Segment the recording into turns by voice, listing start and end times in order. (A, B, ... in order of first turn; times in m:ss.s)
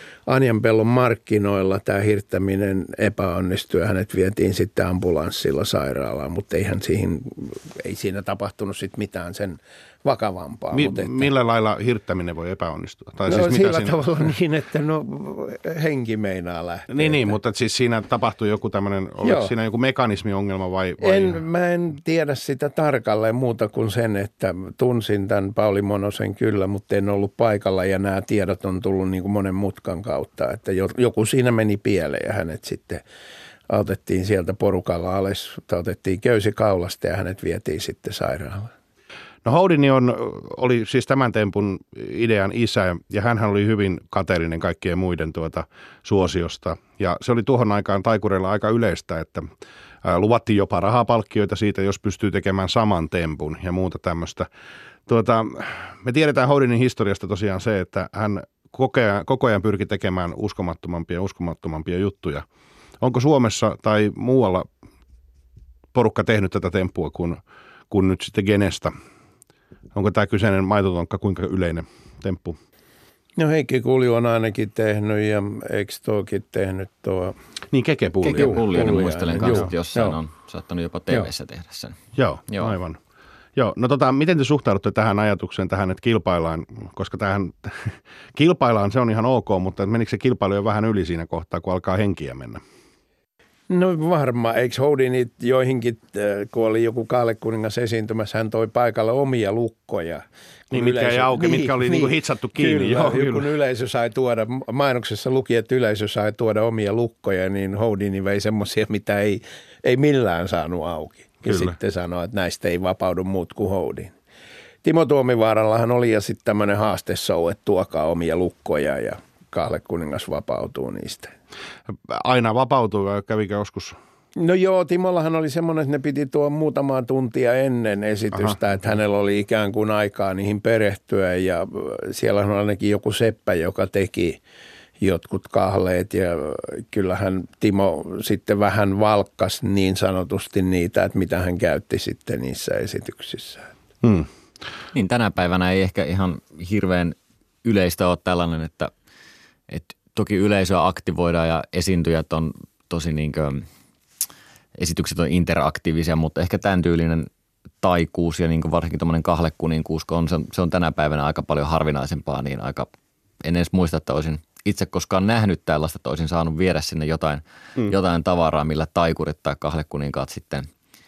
0:00.2-0:11.3 A
0:10.7-0:14.0 B
0:13.2-0:17.3 A
0:16.9-0:21.4 B
0:19.2-0:19.5 A
0:21.0-0:33.0 A
0:33.7-0:38.7 A
0:39.4-0:49.5 B
0:50.0-0:54.5 B
0:55.1-1:02.4 B
1:03.0-1:04.7 B
1:05.9-1:07.4 B
1:07.9-1:08.9 B
1:09.9-1:12.6 B
1:13.4-1:17.4 A
1:17.7-1:18.6 B
1:18.2-1:20.2 A
1:18.3-1:22.0 C
1:22.2-1:23.0 B
1:22.5-1:22.8 C
1:23.6-1:32.6 B
1:33.7-1:54.1 A
1:40.7-1:43.5 B
1:51.4-1:51.7 B
1:54.8-2:01.3 A
2:02.1-2:04.0 B
2:04.4-2:14.4 A
2:15.0-2:23.7 A
2:24.0-2:24.3 B
2:24.9-2:28.9 C
2:29.7-2:33.6 C
2:34.8-2:37.3 C
2:37.8-2:50.7 C